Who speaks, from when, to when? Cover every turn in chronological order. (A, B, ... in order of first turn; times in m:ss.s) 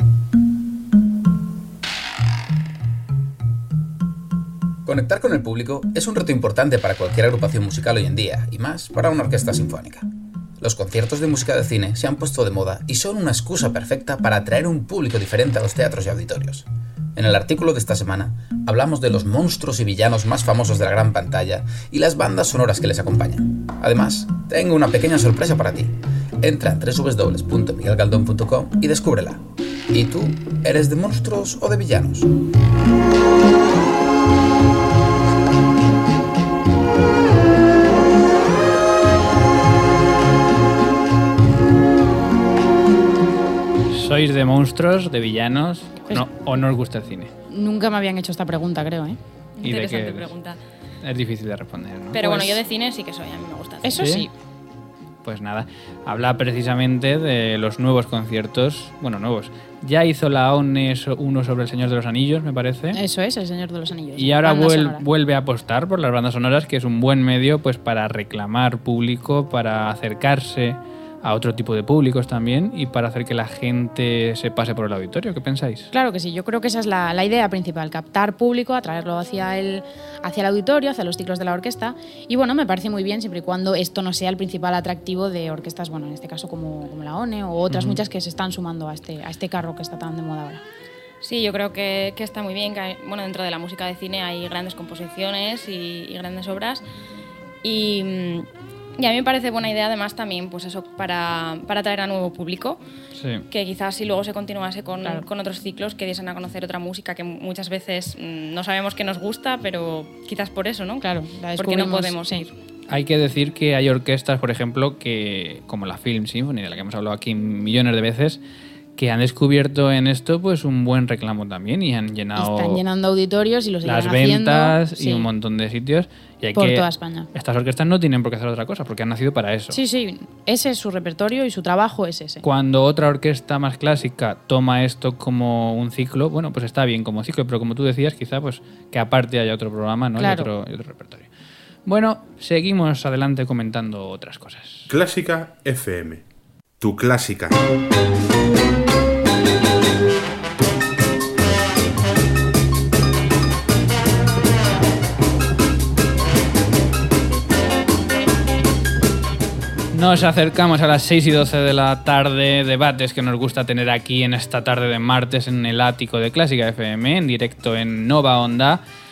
0:04.8-0:10.1 A
0:10.6-0:32.3 A
0:43.9-0:47.3 B
0:47.5-0:49.2 C
0:49.6-0:50.6 D
0:49.6-0:50.3 B
0:51.0-0:52.2 B
0:52.1-0:54.1 D
0:52.2-0:52.6 C
0:53.8-0:54.3 C
0:54.0-0:54.3 B
0:55.2-1:03.0 B
1:02.9-1:05.0 C
1:04.2-1:15.9 B
1:15.9-1:30.6 C
1:27.7-1:28.0 B
1:31.2-1:36.8 D
1:37.6-1:38.5 D
1:39.0-1:42.8 D
1:43.2-1:43.4 B
1:43.5-1:51.1 D
1:51.0-1:52.4 C
1:51.6-1:52.5 D
1:52.9-1:58.4 B
1:59.0-2:02.8 B
2:02.4-2:05.3 C
2:03.8-2:09.8 B
2:06.6-2:07.3 C
2:09.7-2:12.4 C
2:12.4-2:21.3 B
2:20.2-2:20.5 C
2:21.9-2:24.9 B
2:24.9-2:26.2 E
2:26.8-2:27.6 E
2:39.9-2:48.8 B